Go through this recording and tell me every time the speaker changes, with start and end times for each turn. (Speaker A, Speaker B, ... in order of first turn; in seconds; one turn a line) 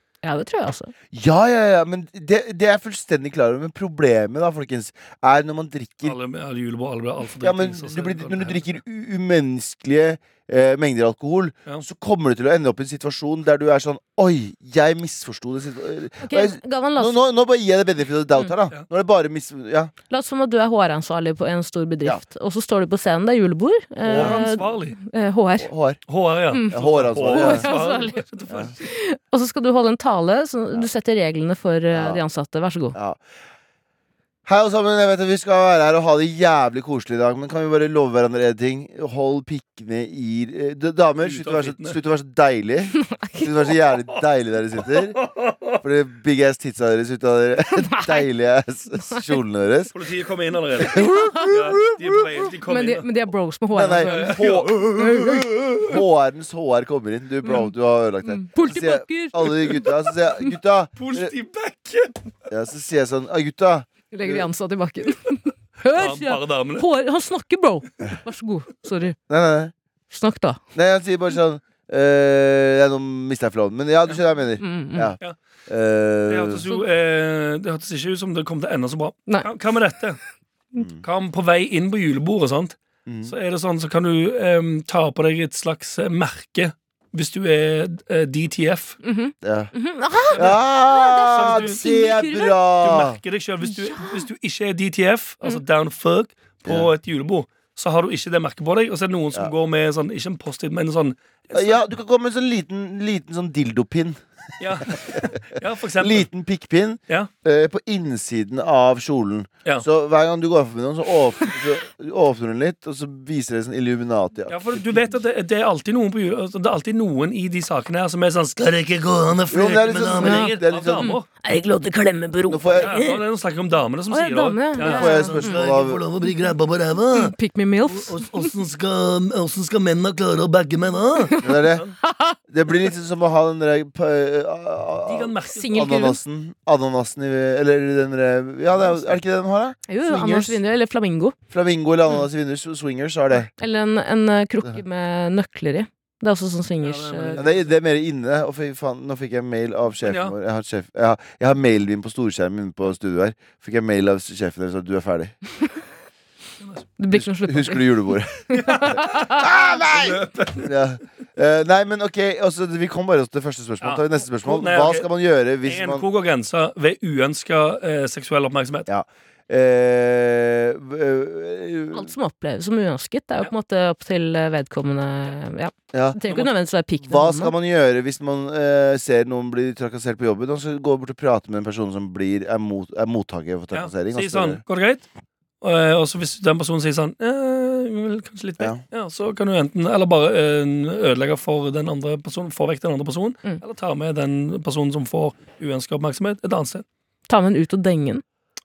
Speaker A: 0.2-0.9
Speaker B: 1.1-6.2
Speaker C: 6.0-8.7
Speaker B: 7.4-19.9
Speaker A: 16.2-17.2
Speaker A: 20.1-25.7
Speaker B: 24.0-24.4
Speaker C: 24.1-25.0
Speaker B: 25.6-26.0
Speaker C: 26.1-28.8
Speaker A: 26.5-28.2
Speaker B: 26.7-27.7
Speaker A: 28.8-33.0
Speaker B: 31.9-32.2
Speaker B: 32.9-33.2
Speaker B: 34.4-45.2
Speaker C: 41.2-42.0
Speaker A: 43.0-43.5
Speaker C: 44.9-45.8
Speaker B: 45.8-49.9
Speaker A: 47.8-48.2
Speaker A: 49.0-49.2
Speaker C: 49.9-53.1
Speaker B: 50.8-52.5
Speaker A: 51.0-51.5
Speaker A: 52.7-54.4
Speaker B: 53.7-61.3
Speaker C: 54.0-55.0
Speaker A: 54.9-55.5
Speaker A: 57.4-57.7
Speaker A: 58.2-59.9
Speaker C: 61.0-62.1
Speaker B: 62.5-64.5
Speaker A: 64.1-69.2
Speaker C: 65.9-66.9
Speaker B: 69.3-69.7
Speaker A: 70.1-70.6
Speaker B: 70.7-76.6
Speaker A: 74.6-75.1
Speaker C: 76.3-80.2
Speaker B: 80.8-81.0
Speaker C: 81.0-89.0
Speaker B: 83.0-83.3
Speaker A: 89.0-92.5
Speaker B: 89.4-89.7
Speaker C: 90.3-90.6
Speaker B: 90.3-93.2
Speaker C: 91.3-91.8
Speaker C: 92.8-101.8
Speaker A: 93.6-94.2
Speaker B: 96.6-96.9
Speaker B: 101.5-104.2
Speaker C: 104.6-106.3
Speaker B: 104.8-105.3
Speaker B: 106.0-114.9
Speaker C: 114.5-121.2
Speaker B: 119.5-121.1
Speaker A: 120.2-123.2
Speaker B: 122.5-123.0
Speaker C: 122.8-127.3
Speaker A: 124.1-125.6
Speaker B: 124.8-126.0
Speaker A: 127.1-128.5
Speaker C: 127.8-131.9
Speaker A: 131.2-132.4
Speaker B: 131.4-131.8
Speaker B: 132.5-140.6
Speaker C: 135.1-135.9
Speaker A: 135.5-136.2
Speaker C: 138.8-139.2
Speaker A: 139.9-141.3
Speaker B: 141.5-143.5
Speaker A: 143.5-147.4
Speaker C: 146.8-147.7
Speaker B: 147.4-155.3
Speaker C: 150.0-150.3
Speaker C: 156.6-156.9
Speaker A: 157.0-159.4
Speaker B: 157.1-166.0
Speaker C: 158.5-160.7
Speaker C: 163.8-165.1
Speaker C: 165.6-168.9
Speaker B: 168.9-172.1
Speaker A: 171.9-177.5
Speaker B: 175.9-176.2
Speaker B: 177.0-184.6
Speaker C: 183.7-185.0
Speaker C: 185.6-196.8
Speaker A: 197.3-198.2